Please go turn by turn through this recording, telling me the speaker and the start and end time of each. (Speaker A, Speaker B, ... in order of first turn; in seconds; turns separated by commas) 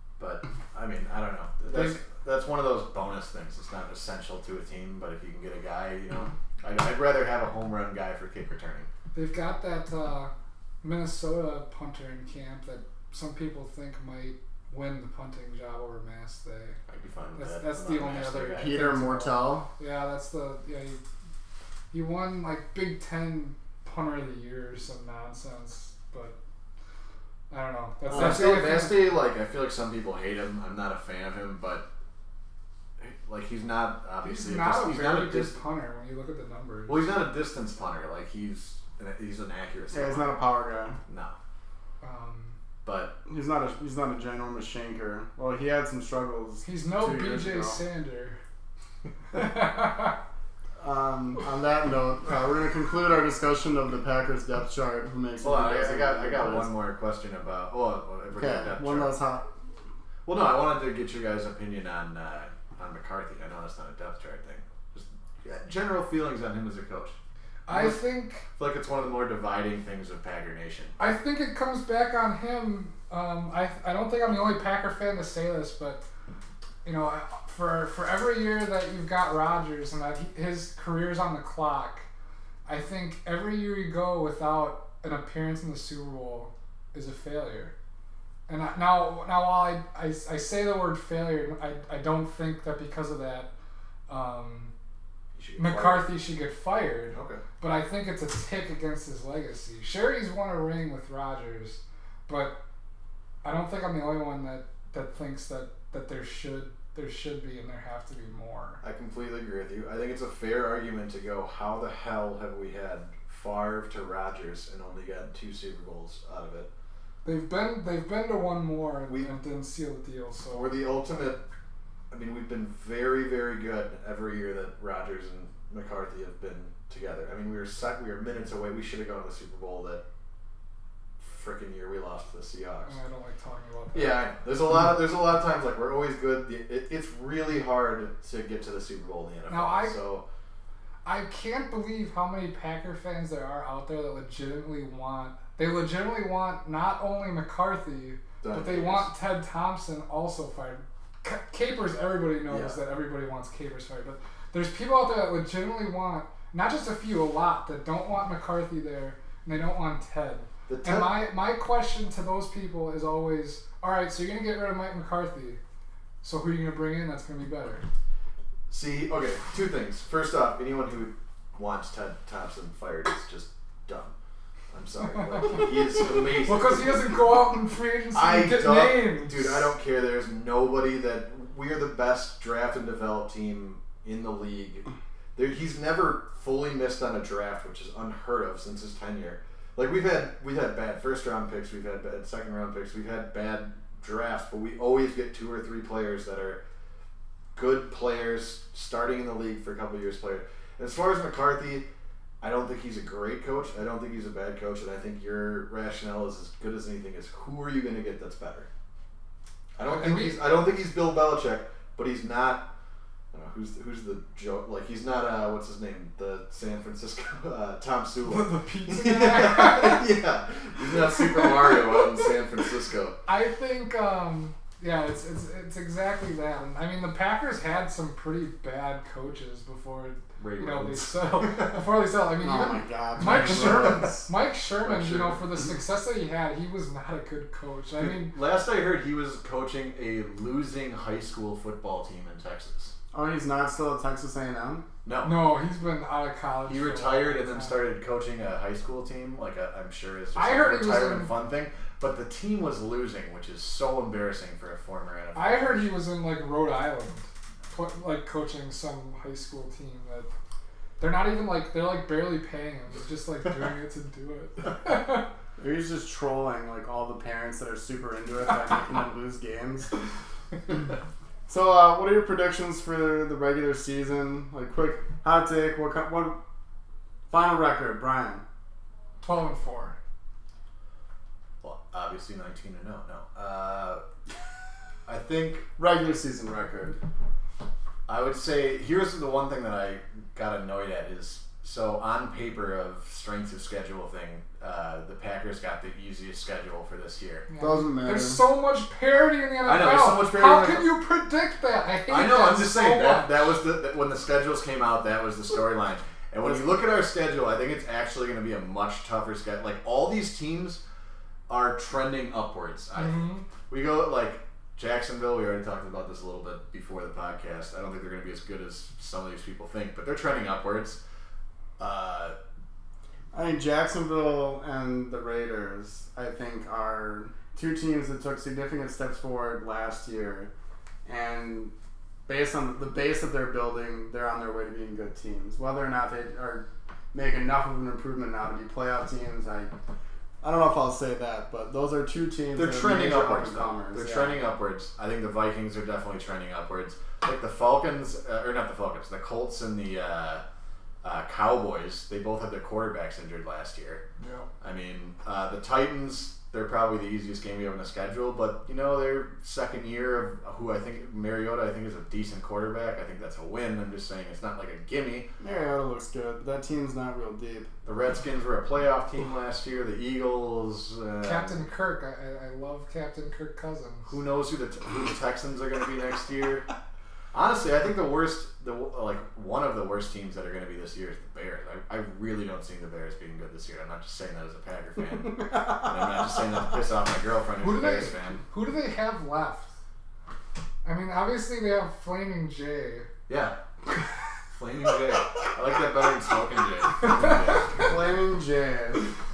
Speaker A: 0.2-8.9, Speaker B: 1.7-2.0, Speaker B: 9.1-16.8, Speaker A: 16.9-18.8, Speaker B: 17.4-21.0, Speaker C: 18.6-19.7, Speaker B: 21.9-26.4, Speaker B: 27.5-29.1, Speaker A: 28.1-31.9, Speaker A: 33.0-35.5, Speaker B: 34.2-37.1, Speaker A: 36.9-40.4, Speaker C: 39.9-41.0, Speaker A: 41.1-41.4, Speaker B: 42.0-42.5, Speaker A: 42.8-43.2, Speaker C: 43.2-47.8, Speaker B: 46.6-48.4, Speaker B: 49.3-50.2, Speaker C: 50.8-56.7, Speaker A: 55.4-59.1, Speaker C: 58.3-59.4, Speaker A: 60.2-67.2, Speaker B: 67.7-68.4, Speaker A: 67.7-70.9, Speaker B: 71.0-76.0, Speaker B: 76.8-82.1, Speaker B: 82.7-87.7, Speaker B: 88.5-93.5, Speaker B: 94.1-94.7, Speaker A: 95.3-96.1, Speaker B: 95.6-102.6, Speaker A: 97.1-97.4, Speaker B: 103.4-108.8, Speaker A: 108.8-116.7, Speaker B: 117.2-120.7, Speaker A: 120.5-121.4, Speaker A: 122.1-130.0, Speaker A: 131.2-133.0, Speaker B: 132.8-134.3, Speaker A: 133.9-140.2, Speaker B: 139.5-139.9, Speaker B: 141.0-165.6, Speaker A: 148.4-149.1, Speaker A: 152.5-152.8, Speaker A: 160.7-161.2, Speaker B: 166.2-167.8, Speaker A: 168.7-174.1, Speaker A: 174.7-177.1, Speaker B: 175.2-175.7, Speaker B: 176.3-179.7, Speaker A: 178.1-196.6, Speaker A: 197.5-201.8, Speaker A: 202.4-208.7, Speaker A: 209.8-212.7, Speaker B: 209.8-210.4, Speaker A: 213.3-223.2, Speaker B: 218.2-220.1, Speaker B: 221.0-222.2, Speaker B: 223.2-238.3, Speaker A: 230.4-231.9, Speaker C: 232.4-234.3, Speaker A: 233.2-234.0, Speaker A: 234.8-235.6, Speaker A: 238.0-242.9, Speaker C: 243.1-244.9, Speaker A: 245.0-245.4, Speaker B: 245.2-247.8, Speaker A: 246.7-255.9, Speaker B: 250.3-251.3, Speaker B: 255.3-260.3, Speaker B: 261.0-265.3, Speaker C: 265.6-269.9, Speaker C: 271.5-276.4, Speaker C: 277.3-278.4, Speaker B: 279.2-279.9, Speaker A: 281.6-284.0, Speaker A: 285.1-285.7, Speaker C: 285.8-287.0, Speaker A: 288.1-297.4, Speaker B: 297.5-303.5, Speaker C: 297.6-298.4, Speaker A: 299.6-300.9, Speaker A: 302.1-310.8, Speaker A: 311.5-321.0, Speaker B: 313.0-313.4, Speaker A: 321.8-322.4, Speaker C: 323.3-330.5, Speaker C: 331.1-331.7, Speaker C: 332.3-339.7, Speaker C: 340.4-344.4, Speaker A: 342.6-350.4, Speaker A: 351.0-354.0, Speaker A: 354.6-365.3, Speaker C: 365.4-367.7, Speaker A: 367.8-371.6, Speaker B: 371.2-374.1, Speaker A: 374.1-376.7, Speaker A: 377.3-388.4, Speaker B: 387.6-389.7, Speaker B: 390.8-393.1, Speaker A: 393.3-393.5, Speaker A: 394.5-397.9, Speaker C: 397.8-399.1